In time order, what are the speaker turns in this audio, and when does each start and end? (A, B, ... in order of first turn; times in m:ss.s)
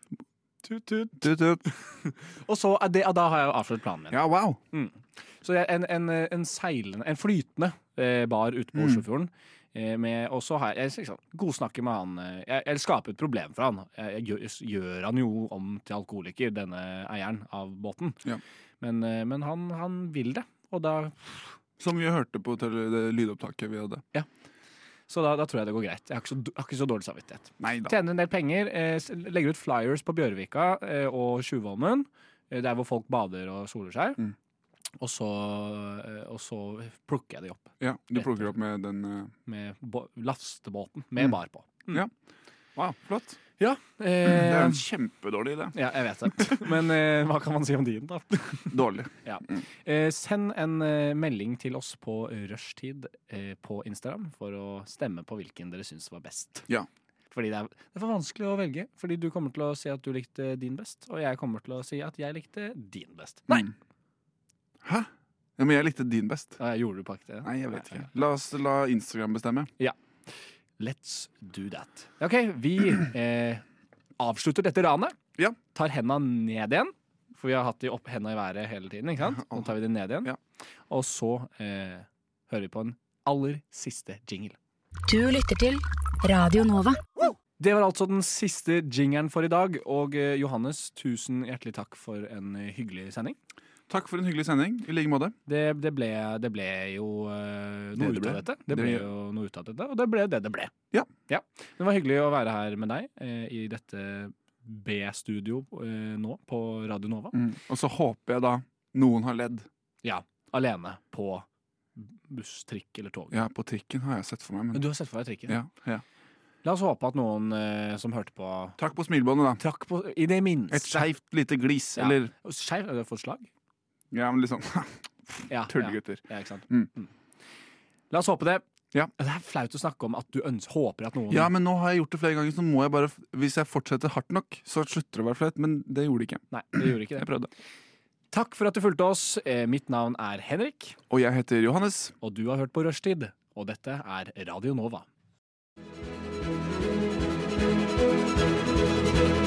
0:00.6-0:04.2 A
0:01.2-0:01.6 B
0:04.1-0:04.6 B
0:04.7-0:18.2 A
0:08.8-0:09.0 B
0:18.8-0:21.5 A
0:21.8-0:24.0 B
0:25.1-0:34.2 A
0:27.6-0:28.0 B
0:35.0-0:38.5 A
0:37.8-0:39.3 B
0:39.5-0:42.0 A
0:42.8-0:43.4 B
0:43.6-0:44.8 A
0:44.2-0:45.8 B
0:45.7-0:56.7 A
0:48.7-0:49.6 B
0:57.3-1:03.7 A
1:04.8-1:06.6 B
1:06.6-1:08.1 A
1:07.4-1:09.7 B
1:10.8-1:13.6 A
1:14.2-1:15.2 A
1:15.7-1:20.3 A
1:19.4-1:19.7 B
1:20.9-1:24.6 A
1:25.1-1:27.0 C
1:27.6-1:33.4 A
1:33.9-1:35.4 B
1:35.5-1:40.7 A
1:38.0-1:39.1 B
1:41.3-1:47.4 A
1:47.3-1:49.7 B
1:50.0-1:51.5 A
1:52.0-1:53.4 A
1:53.3-1:54.8 B
1:54.7-1:55.6 A
1:55.5-1:56.0 B
1:56.6-1:58.8 A
1:58.8-1:59.6 B
1:59.6-2:01.1 A
2:00.7-2:02.3 B
2:02.0-2:03.5 A
2:04.1-2:06.9 B
2:05.5-2:07.1 A
2:08.1-2:08.6 A
2:09.2-2:11.5 A
2:11.3-2:17.5 B
2:16.5-2:17.3 A
2:18.3-2:21.0 A
2:21.1-2:22.2 B
2:22.2-2:25.1 A